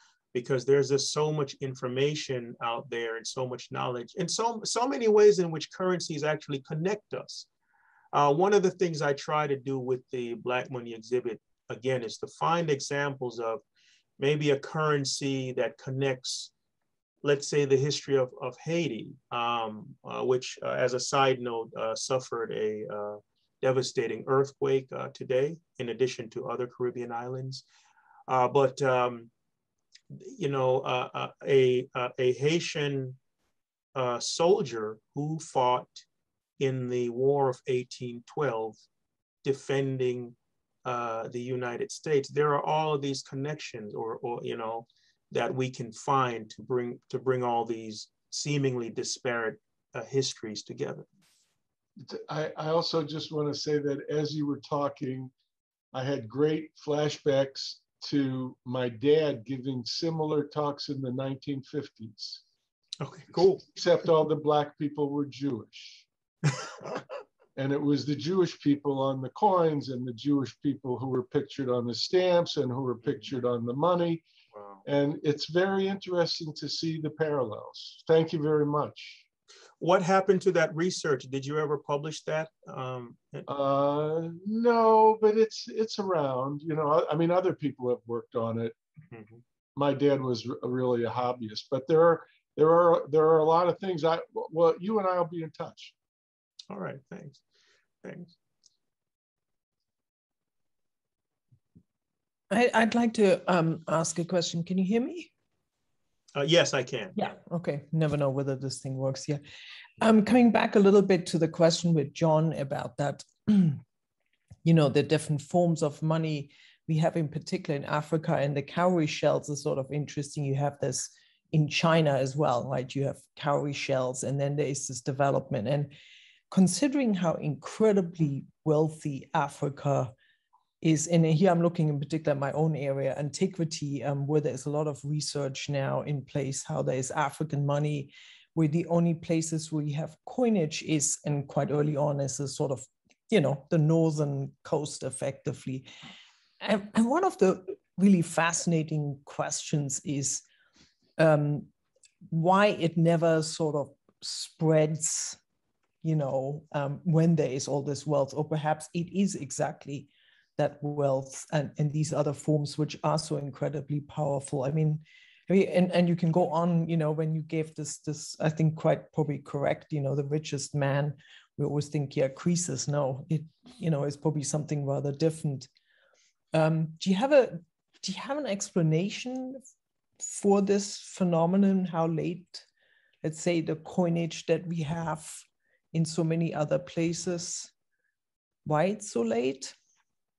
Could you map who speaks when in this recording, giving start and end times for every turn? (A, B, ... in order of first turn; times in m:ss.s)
0:00.3-0:07.5 A
0:08.1-0:13.6 A
0:14.2-0:16.5 A
0:17.2-0:27.6 A
0:28.3-0:29.3 A
0:30.1-0:33.2 A
0:34.0-0:36.1 A
0:36.6-0:38.8 A
0:39.4-0:51.1 A
0:52.0-0:55.3 B
0:55.9-1:02.4 B
1:03.0-1:03.7 A
1:03.7-1:06.1 B
1:07.6-1:14.2 B
1:14.6-1:14.8 A
1:14.9-1:19.2 B
1:19.8-1:23.5 A
1:23.5-1:28.8 B
1:29.1-1:29.4 A
1:29.8-1:35.9 B
1:36.7-1:37.4 A
1:38.0-1:38.4 A
1:42.5-1:45.3 C
1:46.4-1:47.2 A
1:47.2-1:49.4 C
1:50.0-1:53.8 C
1:54.6-2:05.9 C
2:06.5-2:10.1 C
2:10.8-2:25.9 C
2:26.6-2:30.4 C
2:31.2-2:31.7 C
2:32.3-2:35.4 C
2:36.0-2:55.7 C
2:56.5-2:59.6 C
3:00.2-3:02.6 C
3:03.2-3:05.4 C
3:05.9-3:07.7 C
3:08.6-3:09.8 C